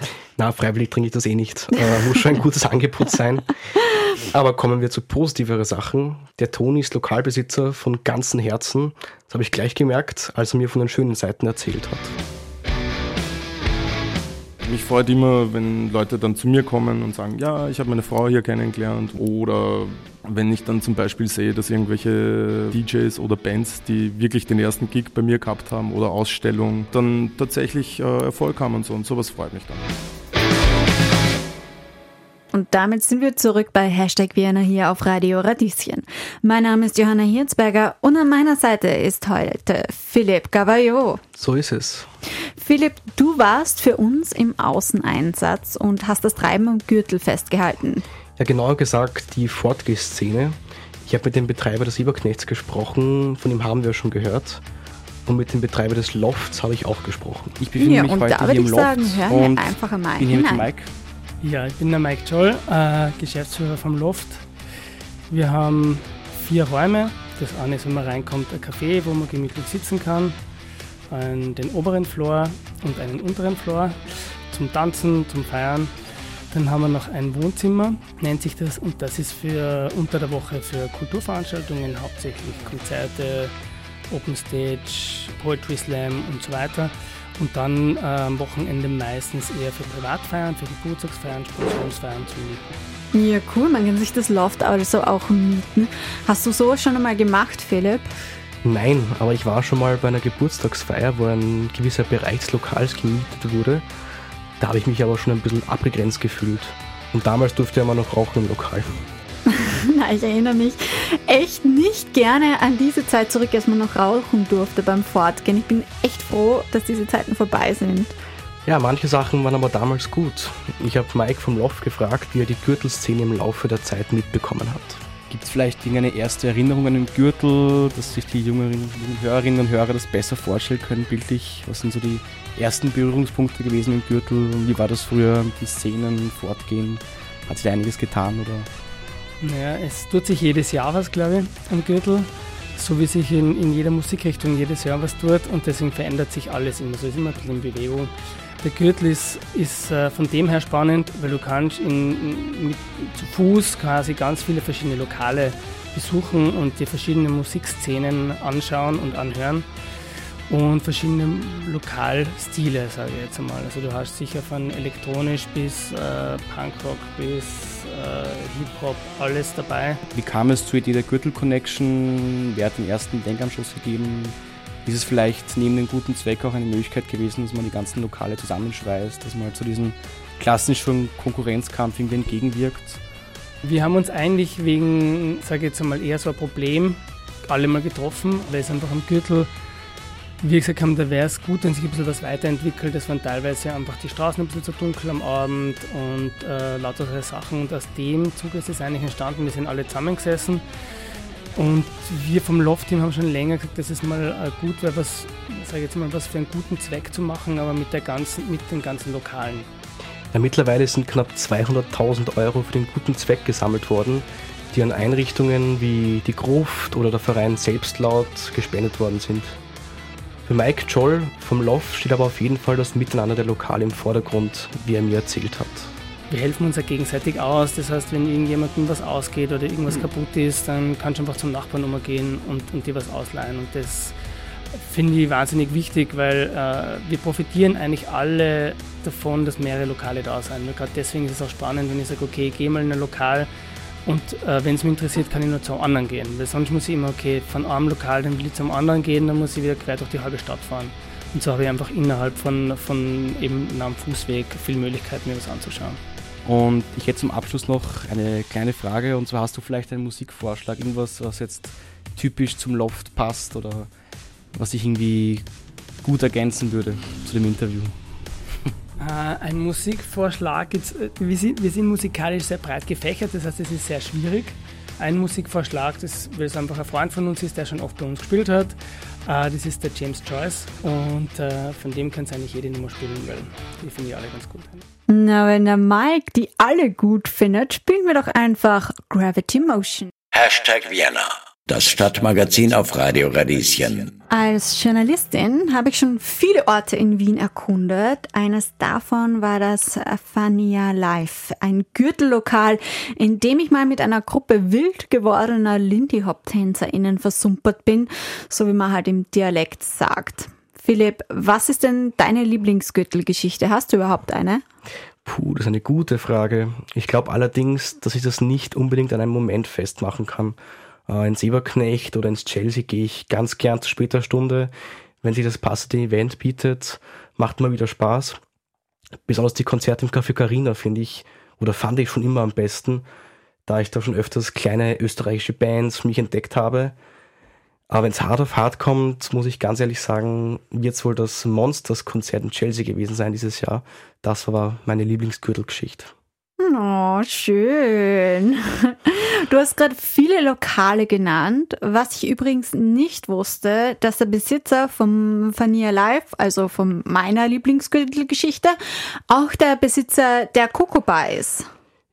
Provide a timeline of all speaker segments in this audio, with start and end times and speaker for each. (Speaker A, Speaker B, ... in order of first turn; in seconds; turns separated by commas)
Speaker A: 0.4-3.5, Speaker A: 4.3-12.1, Speaker B: 14.6-29.8, Speaker C: 32.5-41.2, Speaker A: 41.4-42.1, Speaker C: 42.6-48.0, Speaker A: 48.4-54.6, Speaker A: 55.3-57.6, Speaker D: 57.6-60.9, Speaker C: 57.8-60.7, Speaker E: 61.4-64.5, Speaker E: 65.3-70.4, Speaker E: 71.1-75.9, Speaker E: 76.5-83.5, Speaker E: 84.1-92.8, Speaker C: 93.1-98.1, Speaker A: 98.6-103.9, Speaker A: 104.6-109.0, Speaker C: 109.5-118.1, Speaker A: 118.7-125.0, Speaker D: 125.3-138.7, Speaker E: 139.4-159.7, Speaker E: 160.5-170.0, Speaker D: 170.1-183.0, Speaker E: 183.6-189.5, Speaker E: 190.4-200.6, Speaker E: 201.6-209.7, Speaker A: 210.3-219.6, Speaker A: 220.5-225.9, Speaker E: 226.3-234.2, Speaker E: 234.8-243.5, Speaker E: 244.1-256.0, Speaker D: 256.4-263.9, Speaker D: 264.5-265.5, Speaker D: 266.0-267.9, Speaker E: 269.0-284.8, Speaker C: 285.1-290.1, Speaker F: 290.4-294.1, Speaker C: 294.3-314.6, Speaker A: 315.2-320.6, Speaker A: 321.1-324.7, Speaker A: 325.2-328.4, Speaker A: 329.3-333.1, Speaker A: 333.7-336.9, Speaker A: 337.9-346.1, Speaker C: 346.6-358.8, Speaker C: 359.3-361.7